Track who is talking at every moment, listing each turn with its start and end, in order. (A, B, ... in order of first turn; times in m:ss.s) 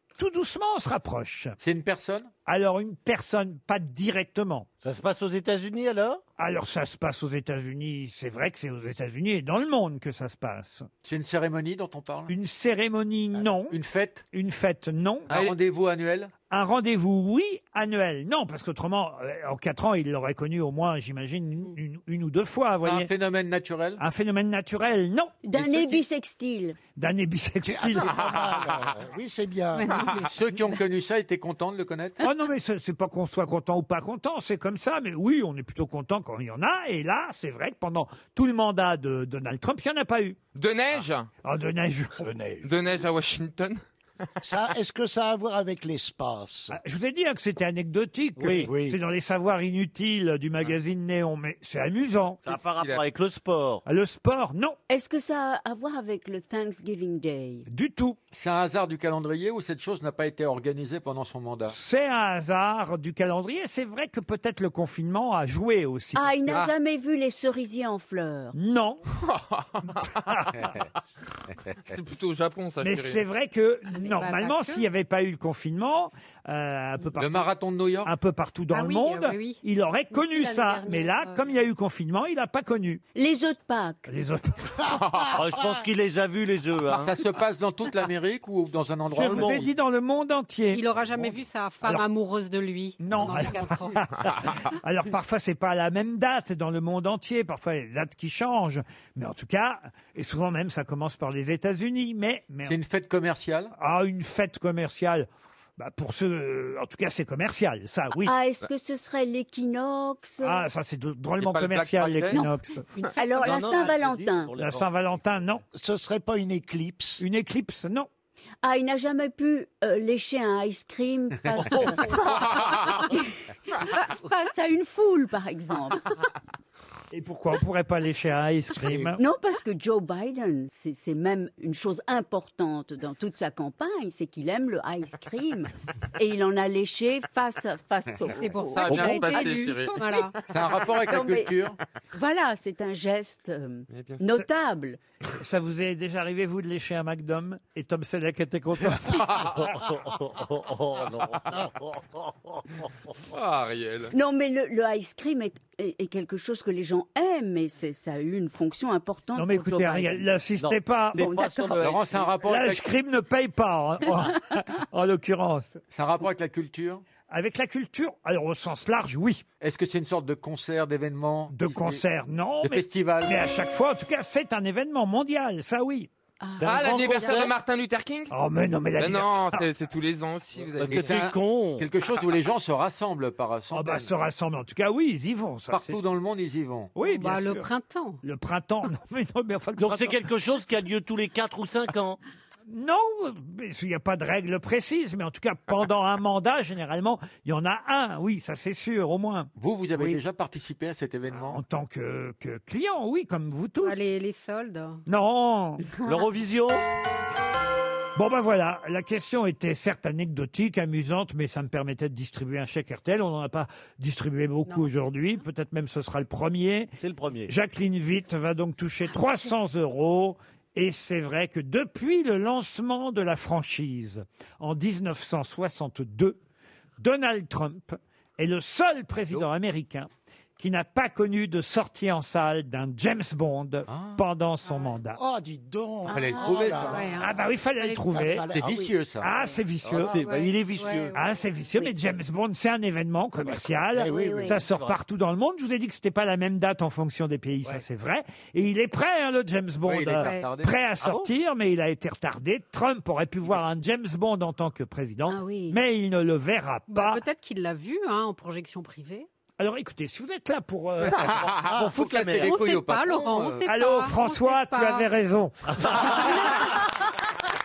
0:00.2-0:01.6 A
0:01.6-0:02.3 B
0:02.4-0:04.7 A
0:04.8-0:06.2 C
0:06.4-0:10.9 A
0:11.0-0:12.3 B
0:12.3-0:13.8 A
0:13.7-0:14.2 B
0:14.3-0:15.5 A
0:15.3-0:16.3 B
0:16.5-0:23.1 A
0:22.8-0:24.0 B
0:24.0-0:25.4 A
0:25.4-0:26.8 D
0:27.0-0:28.3 A
0:27.6-0:29.9 E
0:29.8-0:30.2 F
0:30.1-0:32.2 B
0:32.2-0:40.4 A
0:40.5-0:41.3 G
0:41.4-0:42.3 A
0:42.2-0:42.7 E
0:42.6-0:43.8 G
0:44.4-0:46.8 E
0:46.7-0:52.6 A
0:48.4-0:48.7 C
0:48.5-0:49.0 E
0:52.4-0:53.8 C
0:52.7-0:53.1 G
0:53.8-0:54.8 A
0:54.9-0:57.6 D
0:57.7-0:58.2 A
0:58.3-1:01.8 B
1:01.7-1:06.6 A
1:06.1-1:08.5 D
1:08.5-1:09.0 A
1:09.2-1:10.1 G
1:11.9-1:13.2 G
1:12.8-1:17.5 A
1:13.9-1:14.9 F
1:17.2-1:18.1 B
1:18.0-1:23.0 A
1:18.7-1:21.4 F
1:23.1-1:24.1 D
1:24.1-1:24.9 A
1:25.2-1:27.1 C
1:26.9-1:29.7 B
1:29.1-1:30.8 A
1:30.7-1:34.0 F
1:33.0-1:42.8 A
1:42.6-1:43.7 B
1:43.8-1:48.3 A
1:48.2-1:50.6 D
1:50.4-1:52.8 A
1:51.4-1:52.1 G
1:53.0-1:53.6 F
1:53.1-1:54.6 D
1:53.4-1:54.9 C
1:54.6-1:55.6 A
1:55.7-1:57.2 E
1:57.2-1:58.1 A
1:58.6-2:03.2 D
2:03.8-2:06.2 D
2:07.1-2:09.2 A
2:09.2-2:19.7 D
2:18.4-2:20.3 F
2:18.8-2:20.2 G
2:20.5-2:21.8 B
2:21.1-2:25.0 D
2:23.9-2:24.2 G
2:25.4-2:29.7 A
2:33.3-2:34.1 G
2:34.1-2:40.3 D
2:39.3-2:41.3 A
2:40.6-2:42.3 C
2:41.1-2:41.9 D
2:41.7-2:42.8 B
2:42.4-2:45.8 A
2:45.9-2:47.0 B
2:47.3-2:49.4 A
2:49.6-2:52.0 B
2:51.5-2:56.1 A
2:52.6-2:53.5 B
2:56.4-2:57.4 D
2:56.6-2:57.5 C
2:56.6-2:58.3 G
2:58.3-2:59.7 A
2:59.0-3:01.2 G
3:00.8-3:01.9 C
3:00.8-3:04.1 B
3:03.7-3:06.0 A
3:05.7-3:06.9 B
3:07.0-3:07.7 A
3:07.0-3:08.2 F
3:08.2-3:10.3 A
3:09.8-3:12.2 C
3:12.7-3:19.5 A
3:19.6-3:21.6 B
3:21.5-3:24.0 A
3:23.8-3:25.0 F
3:25.1-3:25.8 A
3:26.0-3:26.8 C
3:28.2-3:36.9 A
3:37.0-3:37.5 C
3:37.5-3:46.4 A
3:47.0-3:55.2 A
3:53.9-3:54.2 B
3:55.2-3:57.2 E
3:56.1-3:57.0 B
3:56.5-3:58.0 F
3:57.2-3:58.5 A
3:58.1-3:58.8 E
3:58.5-3:59.3 B
3:59.2-4:00.2 A
3:59.9-4:01.2 C
4:00.1-4:01.2 F
4:01.1-4:17.2 A
4:04.0-4:05.0 C
4:04.0-4:04.6 D
4:09.8-4:10.7 B
4:10.2-4:10.5 F
4:15.3-4:15.8 D
4:16.9-4:19.3 F
4:19.6-4:21.3 A
4:21.3-4:23.6 B
4:21.5-4:22.4 C
4:22.3-4:25.1 F
4:23.6-4:26.5 A